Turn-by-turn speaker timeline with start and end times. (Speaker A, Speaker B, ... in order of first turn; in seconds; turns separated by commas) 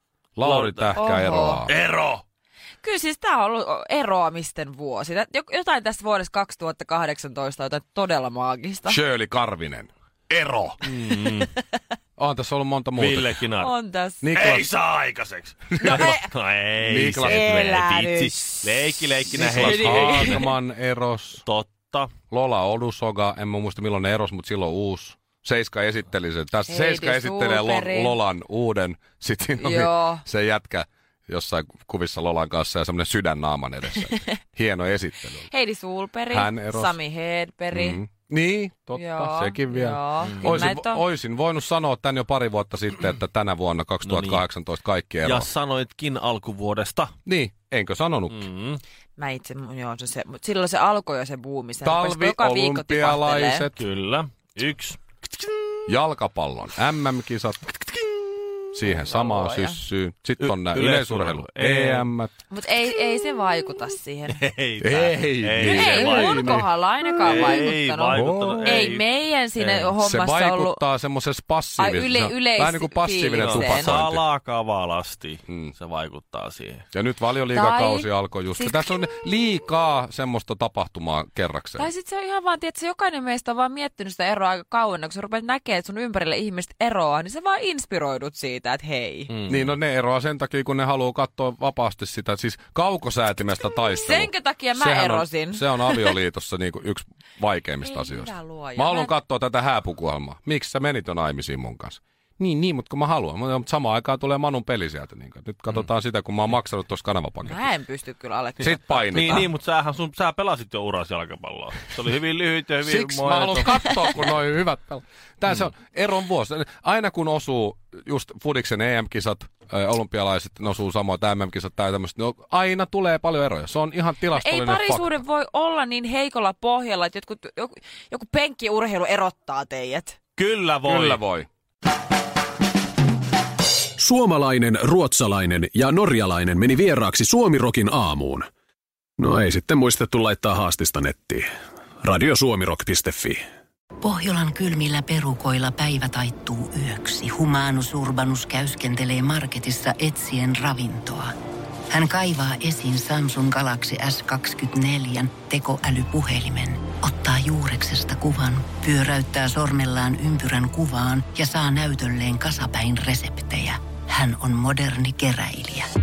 Speaker A: 0.4-1.7, Speaker B: 0.4-1.0, Speaker C: 0.9-1.6, Speaker B: 1.6-2.2, Speaker C: 2.8-9.0, Speaker A: 8.9-10.8, Speaker B: 10.8-11.5, Speaker A: 12.2-13.4, Speaker B: 12.9-13.7, Speaker C: 13.6-14.3, Speaker A: 14.2-14.7, Speaker B: 14.3-20.5, Speaker A: 15.7-16.2, Speaker C: 15.8-16.2, Speaker A: 16.8-17.5, Speaker C: 17.2-18.9, Speaker A: 19.3-21.4, Speaker C: 19.5-20.5, Speaker B: 21.4-22.1, Speaker A: 22.3-35.5, Speaker C: 26.7-28.2, Speaker C: 29.6-30.2, Speaker C: 35.5-38.0, Speaker A: 36.3-37.0, Speaker A: 37.7-45.5, Speaker C: 38.9-41.0, Speaker B: 40.2-40.6, Speaker B: 44.0-44.4, Speaker B: 45.2-47.1, Speaker A: 47.2-48.4, Speaker B: 48.3-48.8, Speaker C: 49.2-53.7, Speaker A: 51.8-53.8, Speaker B: 53.8-55.0, Speaker A: 55.9-57.7, Speaker A: 58.7-62.3, Speaker C: 59.0-59.8, Speaker B: 60.4-62.1, Speaker C: 62.5-64.4, Speaker B: 64.3-66.7, Speaker A: 64.8-66.7, Speaker C: 65.6-70.8, Speaker A: 67.2-68.9, Speaker B: 67.2-69.0, Speaker B: 69.6-70.0, Speaker A: 70.0-74.2, Speaker C: 71.8-74.0, Speaker B: 73.3-76.8, Speaker A: 75.5-75.7, Speaker A: 76.9-81.9, Speaker C: 77.5-79.0, Speaker C: 81.8-89.3, Speaker B: 89.3-89.6, Speaker A: 89.5-107.7, Speaker C: 93.9-96.1, Speaker C: 97.8-99.1, Speaker C: 107.4-109.4, Speaker A: 108.6-109.5, Speaker B: 108.9-114.2, Speaker A: 112.8-125.1, Speaker C: 124.3-130.2, Speaker B: 130.4-131.2, Speaker A: 130.8-131.5, Speaker D: 134.0-138.5, Speaker D: 139.2-141.5, Speaker D: 142.0-143.4, Speaker E: 144.0-151.3, Speaker E: 151.9-165.9